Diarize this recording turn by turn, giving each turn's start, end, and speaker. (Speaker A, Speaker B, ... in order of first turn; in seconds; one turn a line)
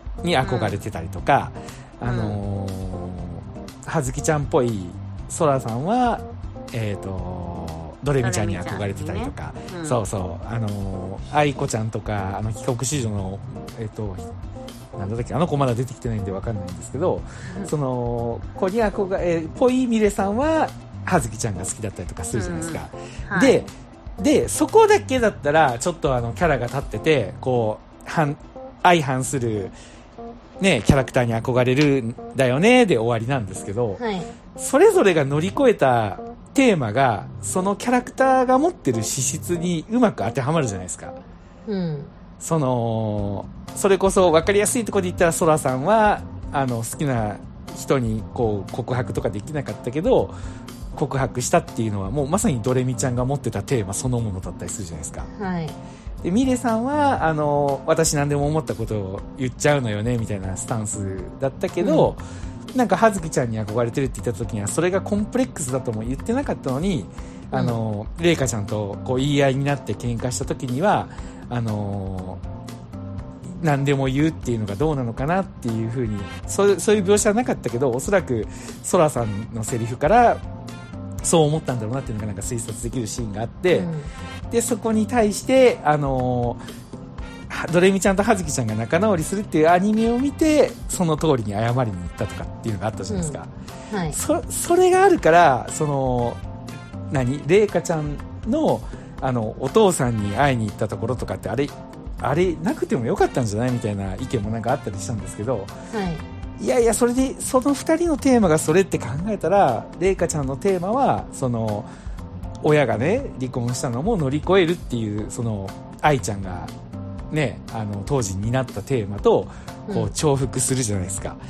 Speaker A: 0.2-14.3
Speaker B: 0.4-0.8
Speaker B: 2.0-2.4
Speaker B: 8.2-10.0
Speaker A: 14.9-29.7
Speaker B: 22.3-23.6
Speaker A: 30.6-34.0
Speaker B: 34.0-34.3
Speaker A: 34.6-41.2
Speaker B: 41.7-42.1
Speaker A: 42.4-50.3
Speaker A: 50.9-55.3
Speaker B: 55.4-55.8
Speaker A: 56.2-62.2
Speaker B: 61.8-62.1
Speaker A: 62.7-72.4
Speaker B: 67.5-67.8
Speaker A: 73.5-80.4
Speaker A: 81.2-83.9
Speaker B: 83.7-84.1
Speaker A: 84.5-86.6
Speaker A: 87.5-93.5
Speaker B: 93.1-93.4
Speaker B: 93.9-94.2
Speaker A: 94.1-96.4
Speaker A: 97.1-105.7
Speaker B: 105.9-106.2
Speaker A: 106.6-111.9
Speaker A: 112.6-116.7
Speaker A: 117.3-121.4
Speaker B: 119.9-120.1